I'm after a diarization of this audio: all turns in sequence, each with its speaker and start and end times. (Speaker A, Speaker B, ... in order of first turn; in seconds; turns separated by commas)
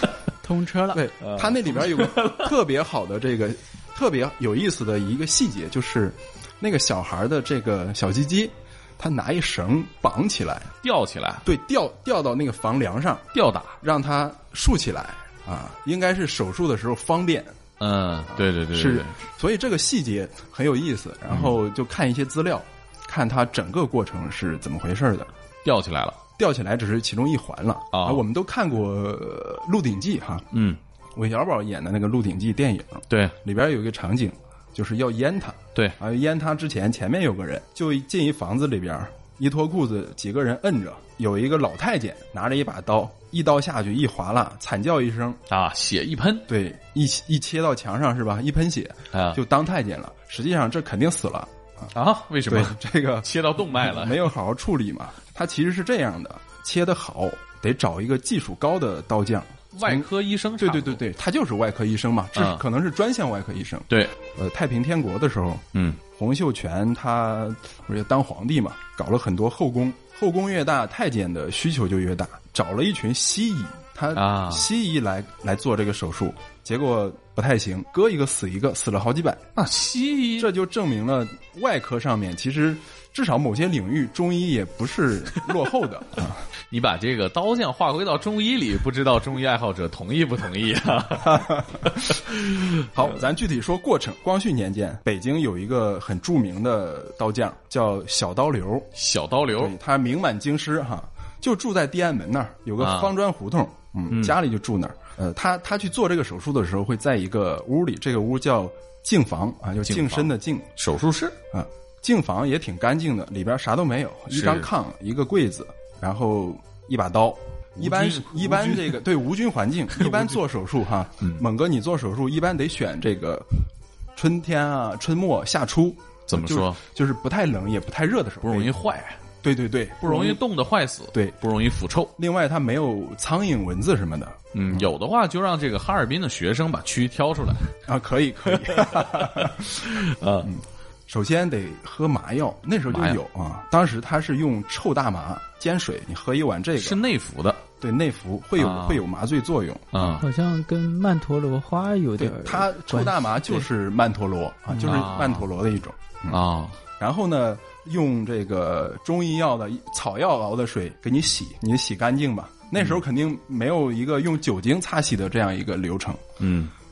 Speaker A: 0.4-1.0, Speaker B: 0.9-10.8, Speaker C: 1.2-2.5, Speaker C: 10.8-11.4, Speaker B: 11.4-13.3, Speaker C: 13.3-13.8, Speaker B: 13.8-17.6, Speaker C: 17.8-19.1, Speaker B: 18.4-25.3, Speaker C: 25.6-26.2, Speaker B: 26.4-30.5, Speaker C: 27.9-28.2, Speaker C: 30.5-30.8, Speaker B: 31.1-45.4, Speaker C: 33.1-33.4, Speaker C: 45.5-46.5, Speaker B: 46.5-51.9, Speaker C: 49.1-49.4, Speaker C: 51.9-54.3, Speaker B: 52.5-60.1, Speaker C: 59.8-61.0, Speaker B: 60.6-79.5, Speaker C: 62.4-62.6, Speaker C: 65.7-66.0, Speaker C: 74.1-74.7, Speaker C: 79.6-80.5, Speaker B: 80.4-86.4, Speaker C: 86.7-92.9, Speaker B: 92.9-98.9, Speaker C: 99.0-99.7, Speaker B: 99.6-110.7, Speaker C: 102.8-103.1, Speaker C: 104.1-104.4, Speaker C: 109.8-111.4, Speaker B: 111.5-128.7, Speaker C: 114.3-114.7, Speaker C: 117.8-119.0, Speaker C: 120.0-120.3, Speaker C: 126.3-126.8, Speaker C: 128.4-129.2, Speaker B: 129.4-130.4, Speaker C: 130.0-132.1, Speaker B: 132.2-134.9, Speaker C: 134.5-137.7, Speaker B: 137.9-139.8, Speaker C: 138.5-140.5, Speaker B: 140.4-147.0, Speaker C: 142.9-143.2, Speaker C: 146.8-147.6, Speaker B: 147.8-150.2, Speaker C: 148.6-149.0, Speaker C: 149.9-150.2, Speaker A: 150.2-153.6, Speaker B: 152.2-156.4, Speaker C: 154.8-155.5, Speaker C: 156.3-156.8, Speaker B: 157.0-166.2, Speaker C: 166.4-166.7